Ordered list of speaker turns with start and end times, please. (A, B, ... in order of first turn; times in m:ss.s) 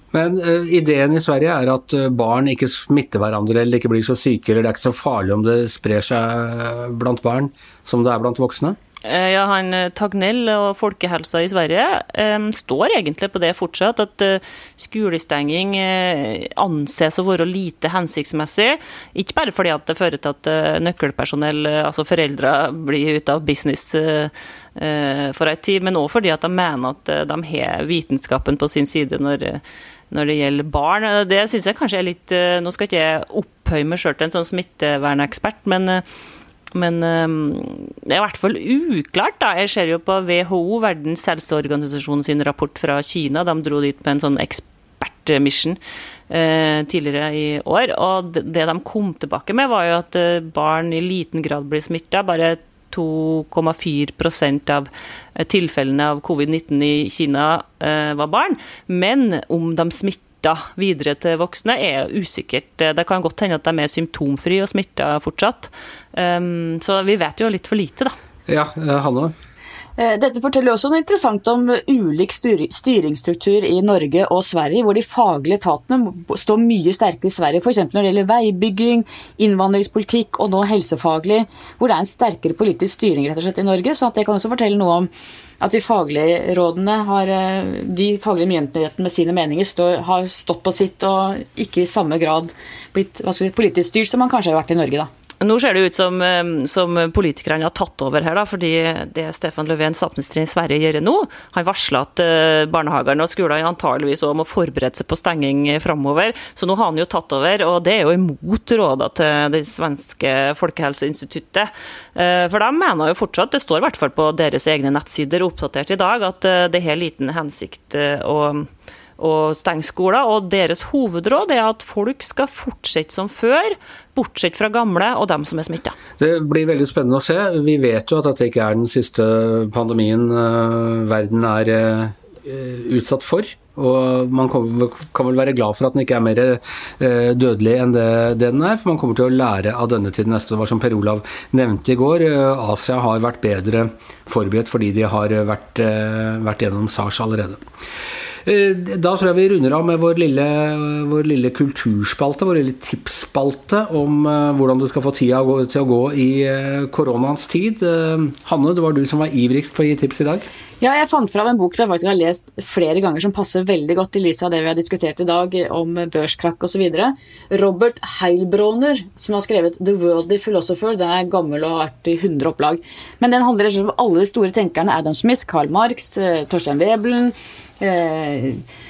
0:00.1-0:08.8 A
0:09.0-0:36.0 B
0:36.7-1:08.1 B
1:08.5-1:09.3 A
1:10.0-1:35.1 C
1:35.4-2:06.0 B
2:06.2-2:27.6 A
2:28.4-2:40.5 A
2:40.8-2:58.6 C